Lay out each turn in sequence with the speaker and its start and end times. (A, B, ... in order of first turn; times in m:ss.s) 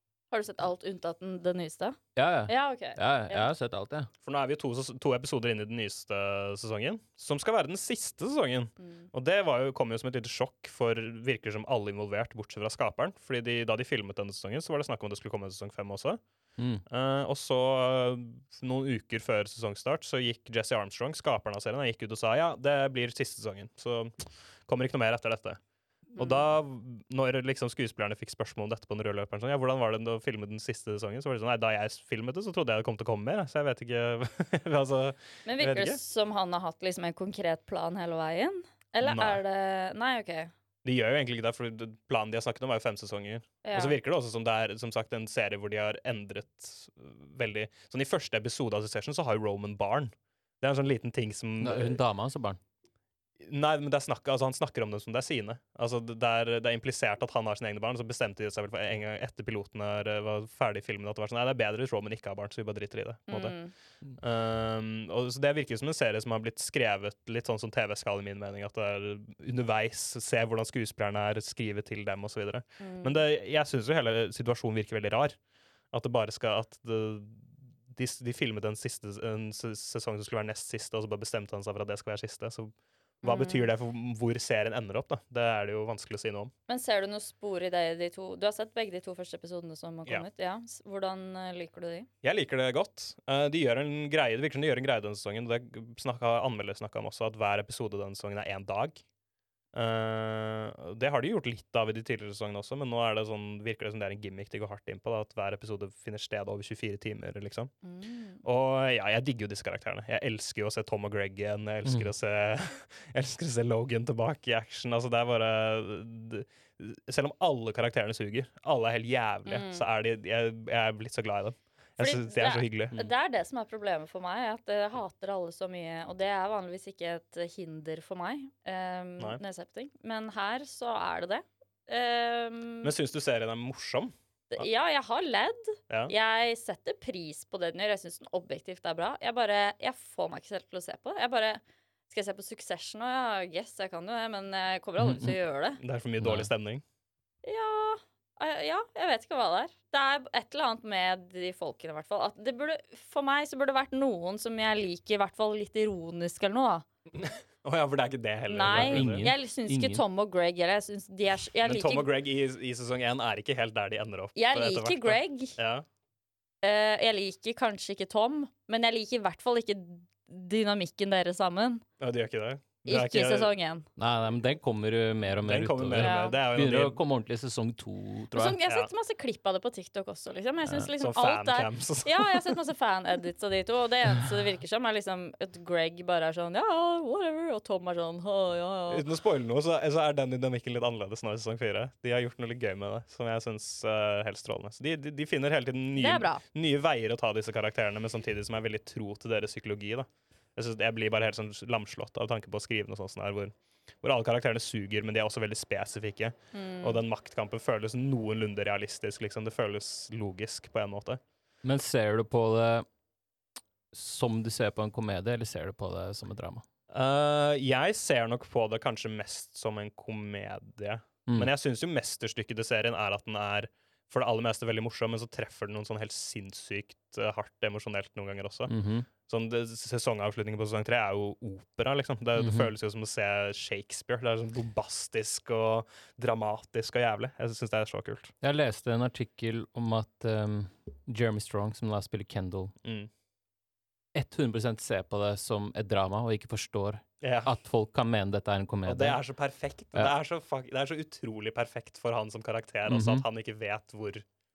0:00.3-0:03.4 A
0:02.2-0:04.1 B
0:04.2-0:16.2 C
0:08.8-0:09.1 A
0:16.6-0:16.8 B
0:16.9-0:25.6 C
0:26.1-0:36.0 C
0:26.2-0:26.4 A
0:35.4-0:40.5 A
0:39.0-0:39.4 C
0:40.8-0:52.0 C
0:43.6-0:44.0 A
0:51.6-0:52.6 B
0:53.4-1:03.6 C
1:03.3-1:03.7 A
1:04.2-1:15.4 C
1:12.8-1:13.2 A
1:15.9-1:26.5 C
1:23.2-1:23.7 A
1:26.7-1:32.1 A
1:32.2-1:39.0 C
1:39.7-1:47.7 C
1:47.8-1:48.4 A
1:48.4-2:03.1 C
1:59.4-1:59.8 A
2:02.0-2:12.9 A
2:12.8-2:14.6 C
2:14.5-2:25.8 A
2:25.0-2:25.4 B
2:25.8-2:26.8 C
2:26.2-2:26.5 B
2:27.4-2:36.8 A
2:37.1-2:39.2 C
2:38.5-2:42.1 A
2:38.7-2:40.0 B
2:41.6-2:45.8 C
2:44.3-2:45.6 A
2:46.6-2:51.8 A
2:52.0-2:53.5 C
2:52.8-2:53.8 A
2:54.0-2:58.6 B
2:55.4-2:57.0 C
2:56.0-2:56.4 A
2:58.3-3:09.0 A
2:58.6-2:58.9 C
3:01.0-3:02.6 C
3:08.9-3:31.2 C
3:16.0-3:16.4 A
3:26.5-3:27.0 A
3:31.6-3:32.8 B
3:33.9-3:36.6 B
3:36.9-3:48.7 C
3:48.7-3:49.1 B
3:49.2-3:58.3 C
3:52.4-3:52.7 B
3:58.4-4:02.7 B
4:02.8-4:03.1 C
4:04.1-4:09.2 B
4:07.2-4:07.5 C
4:08.8-4:14.2 C
4:12.9-4:13.2 B